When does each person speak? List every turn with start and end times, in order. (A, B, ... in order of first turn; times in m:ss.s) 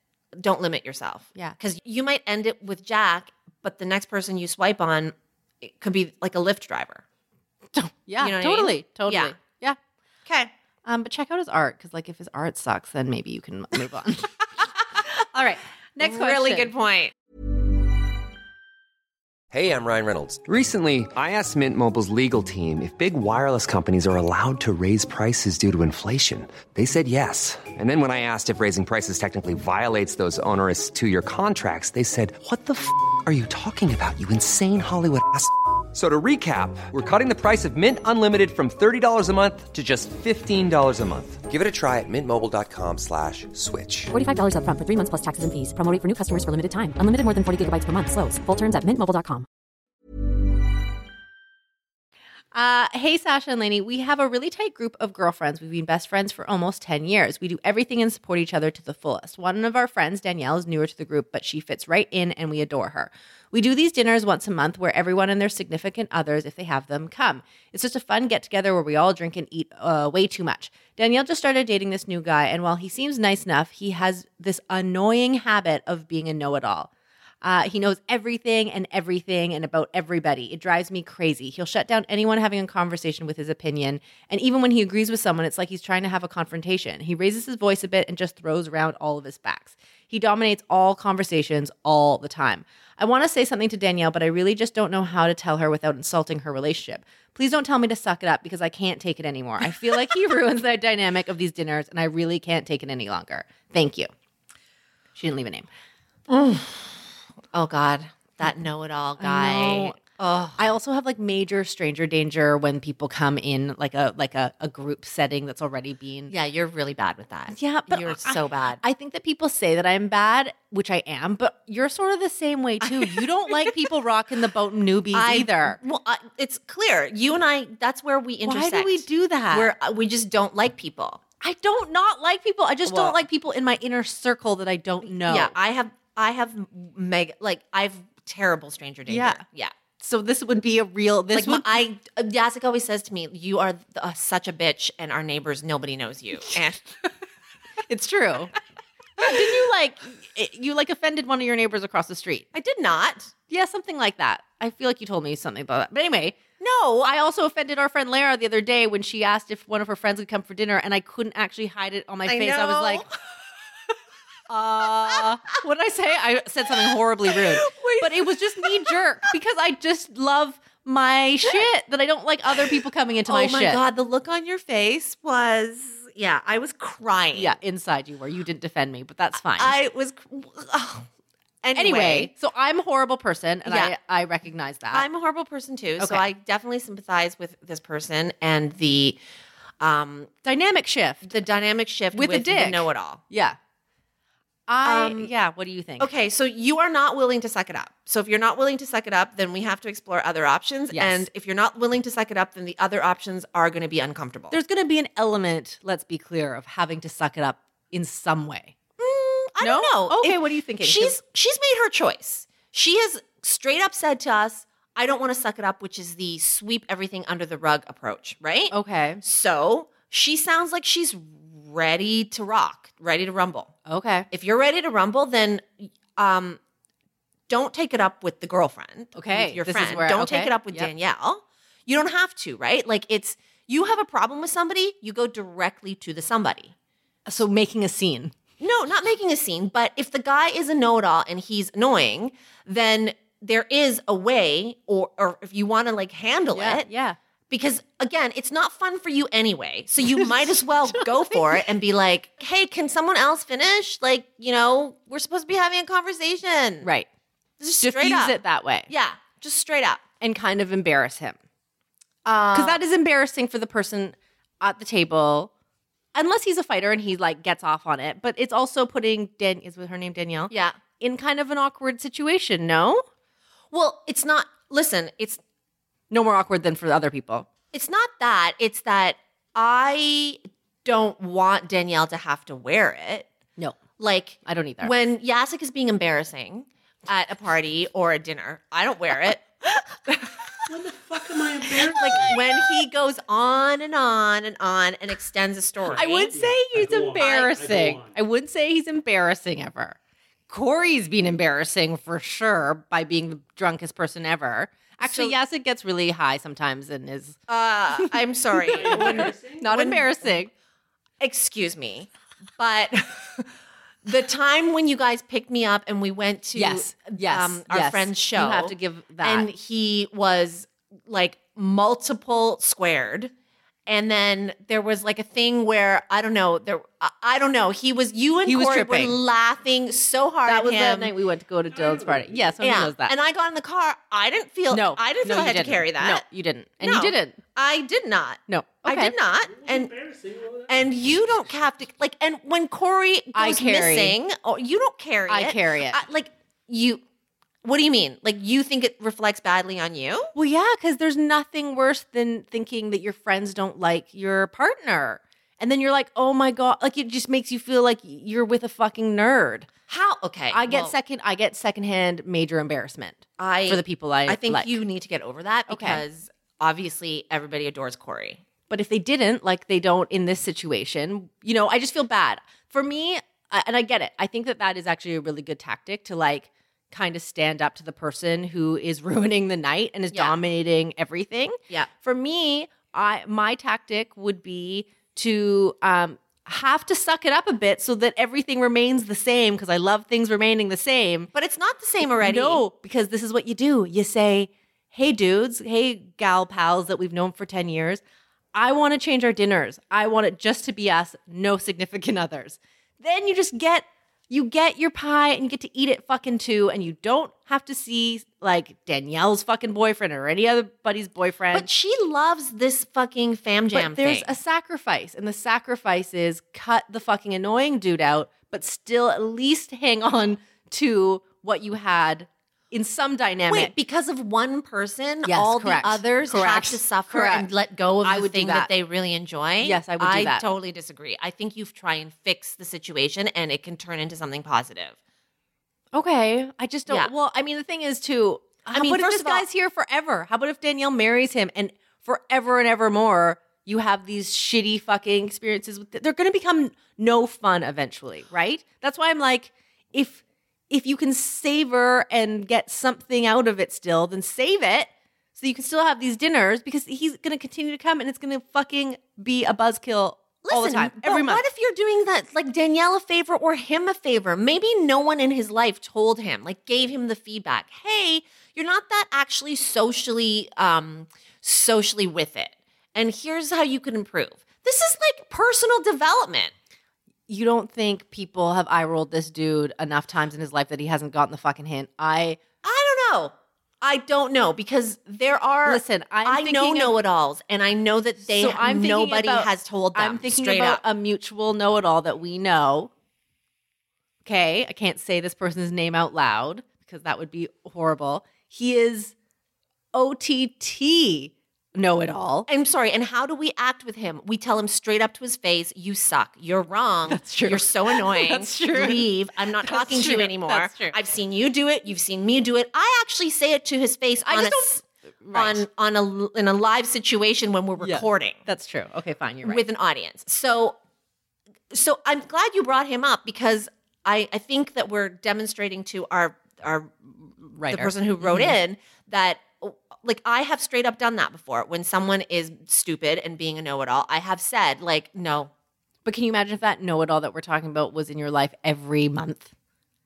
0:00.3-0:07.0 A
0:07.7-0:09.8 B
0:08.2-0:09.3 A
0:10.2-0:10.5 A
0:10.8-0:14.4 B
0:15.0-0:16.7 B
0:16.0-0:17.1 A
0:19.5-0:44.1 C
0:44.1-0:49.4 D
0:52.5-1:16.9 B
1:17.4-1:44.1 B
1:45.1-1:45.7 B
1:46.3-1:47.0 A
1:47.5-1:50.6 A
1:49.2-1:50.0 B
1:50.6-1:56.3 B
1:56.3-1:58.8 A
1:57.5-2:05.8 B
2:02.8-2:03.7 A
2:05.1-2:11.2 A
2:08.4-2:09.7 B
2:11.4-2:15.5 B
2:12.8-2:13.2 A
2:15.2-2:19.7 A
2:19.1-2:19.4 B
2:20.0-2:21.8 B
2:21.3-2:27.0 A
2:27.9-2:28.5 B
2:29.2-2:32.5 B
2:32.5-2:33.3 A
2:33.5-2:36.4 B
2:36.6-2:37.0 A
2:37.0-2:43.0 B
2:42.2-2:43.1 A
2:44.5-2:53.8 B
2:47.3-2:48.9 A
2:53.3-2:57.6 A
2:57.3-2:59.8 B
2:59.6-3:01.1 A
3:01.6-3:02.3 A
3:01.7-3:05.0 B
3:03.6-3:03.9 A
3:04.9-3:09.2 A
3:06.0-3:06.2 B
3:09.8-3:10.3 A
3:10.4-3:11.2 B
3:11.2-3:13.2 A
3:12.1-3:13.6 B
3:14.7-3:16.1 B
3:14.8-3:15.3 A
3:16.0-3:24.6 A
3:20.9-3:21.2 B
3:24.5-3:28.8 B
3:29.0-3:43.7 A
3:29.6-3:31.2 B
3:38.7-3:39.2 B
3:43.8-3:44.3 B
3:44.3-3:46.6 A
3:47.5-3:56.7 A
3:49.1-3:50.9 B
3:57.3-3:58.3 B
3:58.6-4:06.8 A
4:06.5-4:07.2 B
4:07.5-4:16.9 A
4:10.1-4:11.7 B
4:16.8-4:17.1 B
4:17.6-4:18.4 A
4:17.8-4:18.9 B
4:18.9-4:20.0 A
4:20.2-4:21.4 B
4:22.2-4:22.8 A
4:22.5-4:25.5 B
4:26.1-4:33.0 B
4:30.5-4:30.8 A
4:33.7-4:35.4 A
4:36.1-4:37.5 B
4:37.7-4:43.3 A
4:44.0-4:49.4 A
4:44.4-4:44.9 B
4:50.1-4:50.3 A
4:50.7-4:52.4 E
4:52.0-4:56.3 A
4:55.8-4:58.1 E
4:55.9-5:00.0 B
4:57.2-4:57.5 A
5:00.5-5:07.4 B
5:05.0-5:05.3 A
5:07.5-5:10.4 A
5:07.9-5:10.5 B
5:08.7-5:09.8 E
5:11.2-5:13.5 A
5:14.0-5:23.3 A
5:16.5-5:19.5 B
5:23.9-5:31.1 A
5:28.4-5:29.2 B
5:30.4-5:33.1 B
5:31.7-5:32.6 E
5:32.6-5:36.2 A
5:34.7-5:37.4 B
5:36.8-5:39.9 A
5:38.5-5:39.1 B
5:39.5-5:41.4 E
5:40.7-5:47.0 A
5:43.3-5:44.2 B
5:45.3-5:46.0 B
5:47.6-5:50.3 A
5:50.3-5:59.7 B
5:59.9-6:00.9 A
6:00.5-6:04.8 B
6:03.4-6:08.4 A
6:05.7-6:06.0 B
6:08.7-6:31.3 B
6:31.3-6:32.6 A
6:32.2-6:38.0 B
6:38.5-6:51.7 B
6:51.5-6:54.3 A
6:53.7-7:03.7 B
7:03.5-7:15.0 A
7:05.2-7:07.5 B
7:08.0-7:08.7 B
7:09.6-7:10.4 B
7:15.9-7:41.4 B
7:18.7-7:19.4 A
7:40.4-7:56.5 A
7:57.3-8:02.4 B
8:02.6-8:10.8 A
8:05.6-8:06.9 B
8:08.2-8:12.9 B
8:14.2-8:19.1 B
8:19.9-8:22.5 B
8:22.5-8:34.8 A
8:27.1-8:29.1 B
8:29.6-8:31.0 B
8:34.2-8:35.6 B
8:35.3-8:38.4 A
8:37.8-8:39.6 B
8:39.4-8:40.8 A
8:41.7-8:55.5 A
8:47.5-8:48.6 B
8:56.0-8:59.5 B